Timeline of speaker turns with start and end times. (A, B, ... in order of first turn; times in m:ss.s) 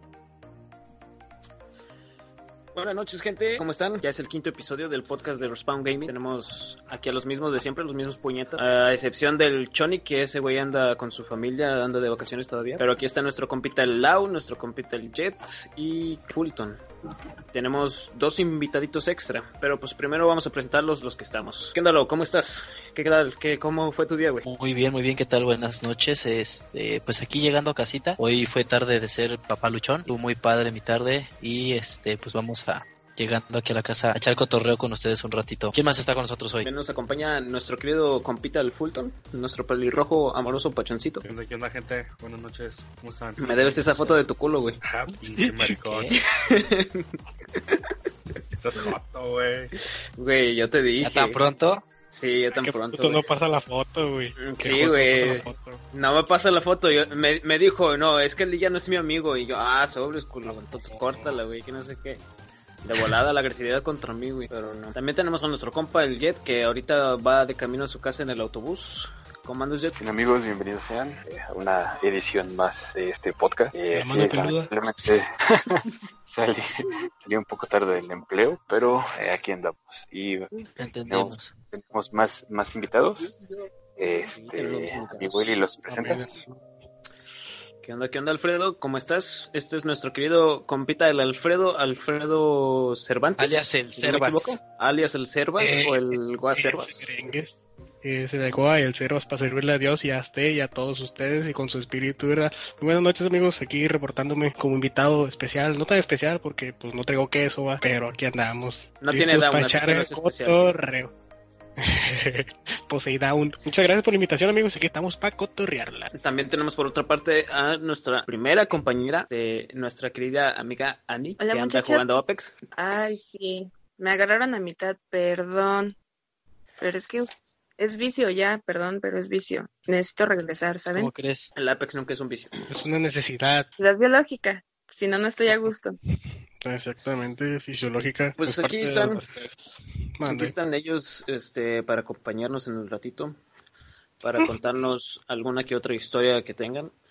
0:02.8-0:16.8 A
0:17.5-0:24.5 A
0:24.4-0:36.7 B
0:36.6-0:41.2 A
0:41.2-0:43.7 C
0:43.4-0:44.8 A
0:43.7-0:44.2 B
0:44.8-0:46.1 C
0:45.4-0:46.2 B
0:46.3-0:47.9 A
0:48.6-0:49.7 C
0:50.2-0:51.4 A
0:51.0-0:51.8 B
0:52.1-0:53.2 A
0:52.5-0:55.8 D
0:54.4-1:02.2 A
1:00.5-1:01.4 D
1:02.8-1:10.0 A
1:10.0-1:16.6 E
1:13.9-1:14.7 D
1:17.2-1:23.4 E
1:20.8-1:21.5 B
1:24.0-1:26.3 E
1:24.2-1:25.5 A
1:25.9-1:26.6 D
1:27.8-1:37.1 A
1:33.4-1:34.6 B
1:35.6-1:51.1 D
1:49.0-1:50.6 A
1:51.8-1:56.1 D
1:56.1-2:02.6 A
2:01.4-2:02.0 F
2:02.7-2:06.0 F
2:06.8-2:11.1 F
2:11.0-2:11.5 B
2:11.6-2:12.5 A
2:12.7-2:13.7 D
2:13.8-2:16.0 F
2:16.6-2:20.6 D
2:18.4-2:19.2 A
2:20.2-2:23.4 A
2:24.2-2:26.9 A